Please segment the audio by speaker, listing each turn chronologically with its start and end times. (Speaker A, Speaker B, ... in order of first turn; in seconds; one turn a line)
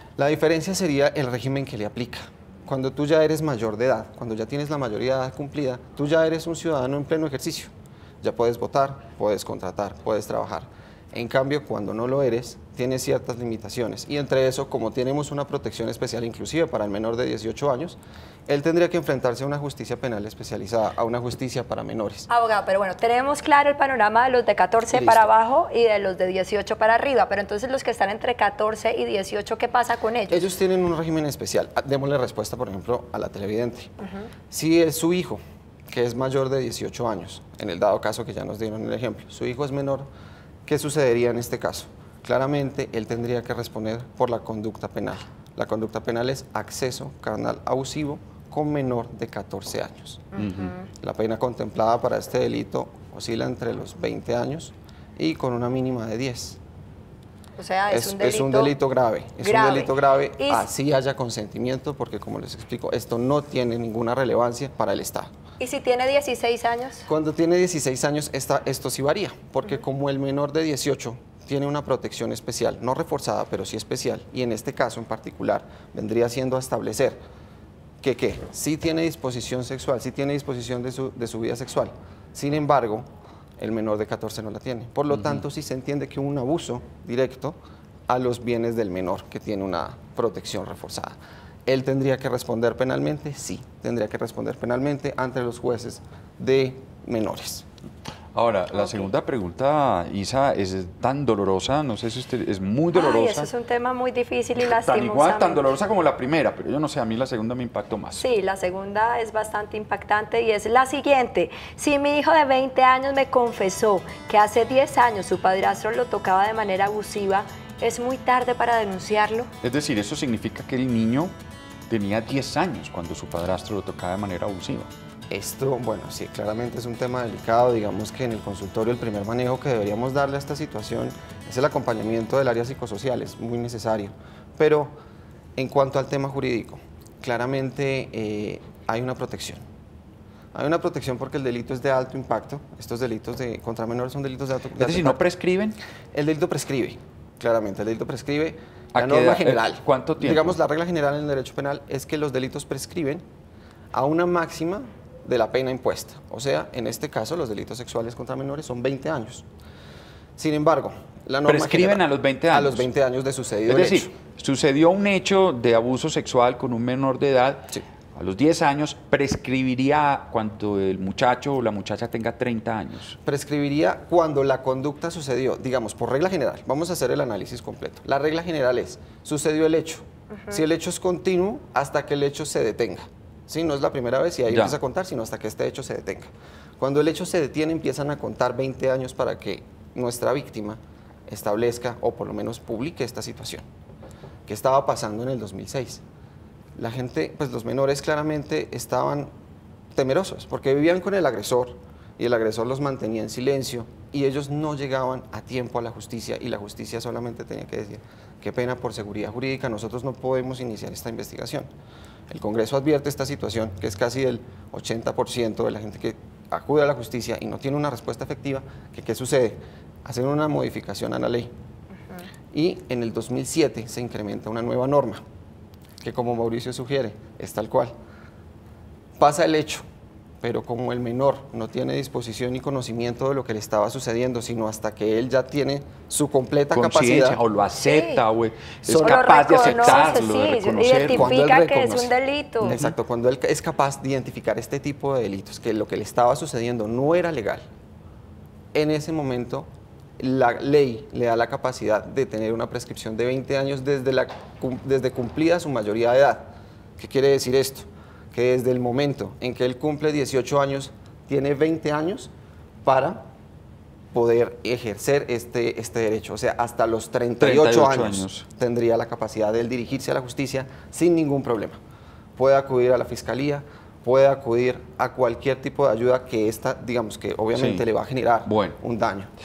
Speaker A: 0.2-22.3
Speaker B: 22.3-30.5
Speaker A: 24.9-25.3
Speaker A: 30.3-33.9
Speaker A: 34.5-40.1
Speaker A: 40.7-56.6
Speaker B: 50.4-50.8
Speaker C: 50.4-50.7
Speaker B: 57.6-58.8
Speaker A: 57.9-65.3
Speaker B: 59.4-60.7
Speaker B: 65.6-67.1
Speaker A: 67.1-77.2
Speaker A: 78.0-83.1
Speaker A: 83.6-97.7
Speaker C: 85.1-85.4
Speaker C: 98.3-103.5
Speaker B: 98.8-99.1
Speaker B: 102.9-105.7
Speaker C: 104.6-108.2
Speaker B: 108.2-119.5
Speaker C: 119.6-121.3
Speaker C: 121.9-124.9
Speaker A: 125.3-134.9
Speaker A: 135.6-139.6
Speaker A: 140.5-145.2
Speaker C: 144.8-145.8
Speaker A: 146.1-153.2
Speaker C: 148.9-150.6
Speaker A: 153.9-159.5
Speaker A: 160.4-164.1
Speaker C: 161.5-162.9
Speaker C: 163.7-173.2
Speaker A: 173.2-193.7
Speaker C: 184.5-184.8
Speaker A: 194.5-196.0
Speaker A: 196.8-199.3
Speaker A: 199.9-211.7
Speaker A: 212.3-221.5
Speaker A: 222.5-225.2
Speaker A: 226.0-227.9
Speaker A: 229.2-229.8
Speaker A: 230.4-237.4
Speaker C: 236.7-241.4
Speaker B: 237.8-238.2
Speaker B: 238.9-242.8
Speaker A: 241.1-242.1
Speaker A: 242.6-247.6
Speaker A: 248.7-249.7
Speaker A: 250.2-262.3
Speaker A: 262.8-263.2
Speaker A: 264.1-271.8
Speaker C: 267.4-268.5
Speaker A: 272.4-279.3
Speaker C: 277.6-277.9
Speaker C: 278.5-278.8